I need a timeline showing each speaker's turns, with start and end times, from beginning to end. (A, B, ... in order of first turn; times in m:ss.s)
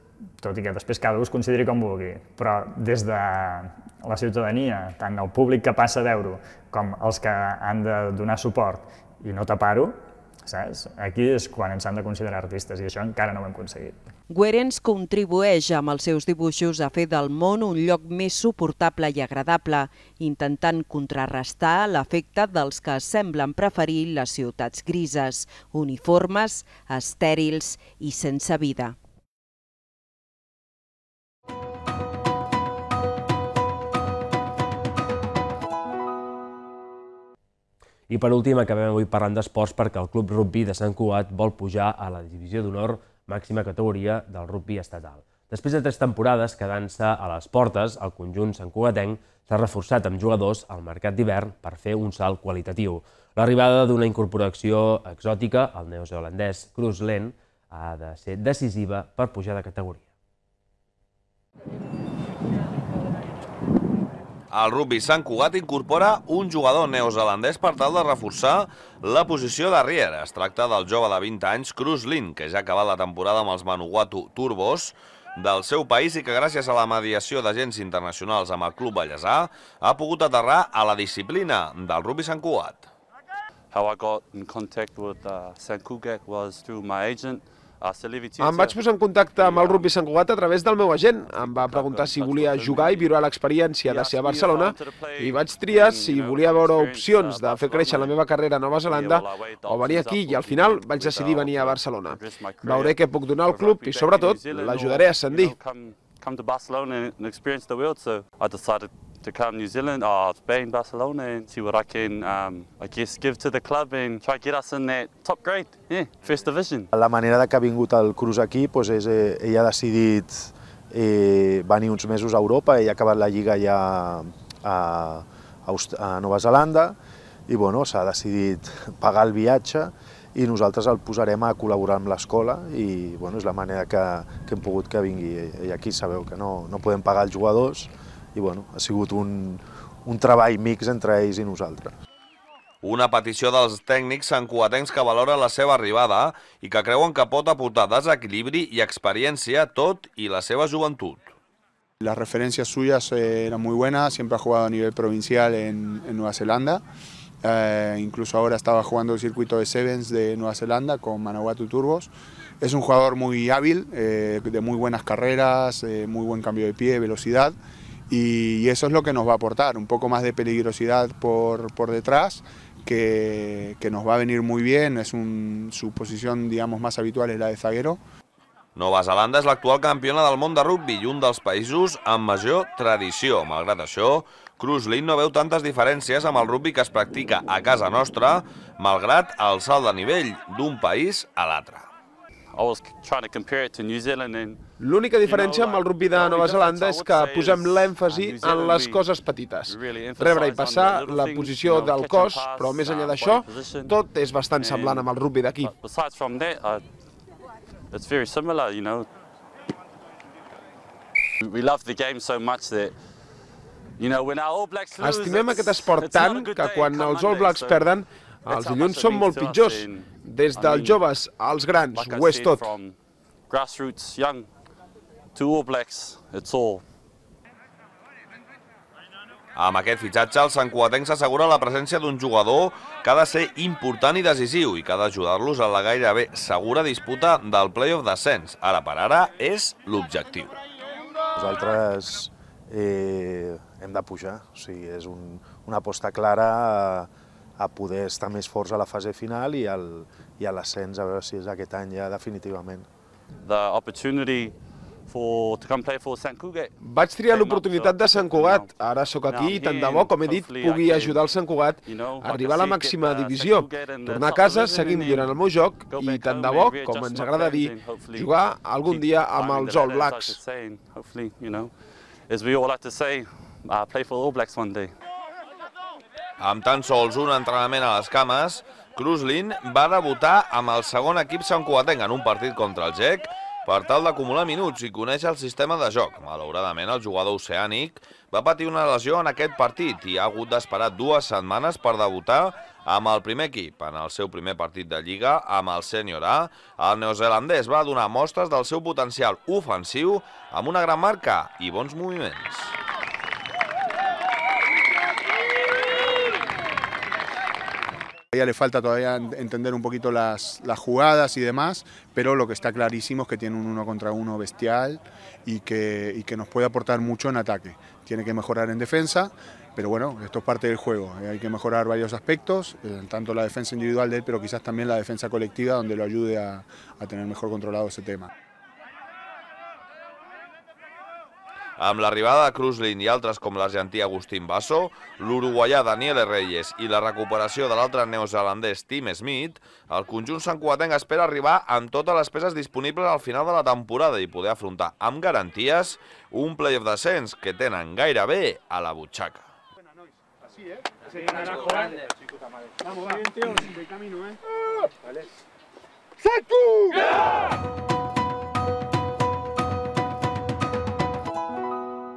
0:00.4-0:14.0 A
0:14.3-0:29.0 B
0:38.1-1:00.0 C
1:04.5-1:22.9 D
1:23.7-1:28.8 E
1:28.4-1:45.5 F
1:29.4-1:29.9 E
1:31.3-1:33.1 E
1:33.8-1:38.2 E
1:38.8-1:56.9 E
1:56.9-2:21.9 G
2:22.8-2:31.3 D
2:32.0-2:36.8 H
2:37.4-2:47.6 H
2:48.1-2:58.0 H
2:58.8-3:11.9 D
3:12.5-3:14.6 E
3:14.8-3:25.7 F
3:15.2-3:19.1 E
3:19.7-3:24.0 E
3:24.6-3:26.8 E
3:27.9-3:29.1 E
3:31.4-3:33.0 E
3:34.0-3:37.9 E
3:35.0-3:42.7 F
3:38.4-3:41.0 E
3:41.9-3:43.0 E
3:43.5-3:44.5 E
3:45.3-3:46.8 E
3:49.6-4:00.6 D
4:01.3-4:12.9 G
4:13.4-4:14.5 E
4:15.1-4:18.7 E
4:16.8-4:30.4 F
4:19.3-4:21.3 E
4:21.8-4:31.7 E
4:32.3-4:34.9 E
4:36.4-5:02.7 D
5:08.3-5:28.3 H
5:31.8-5:49.5 D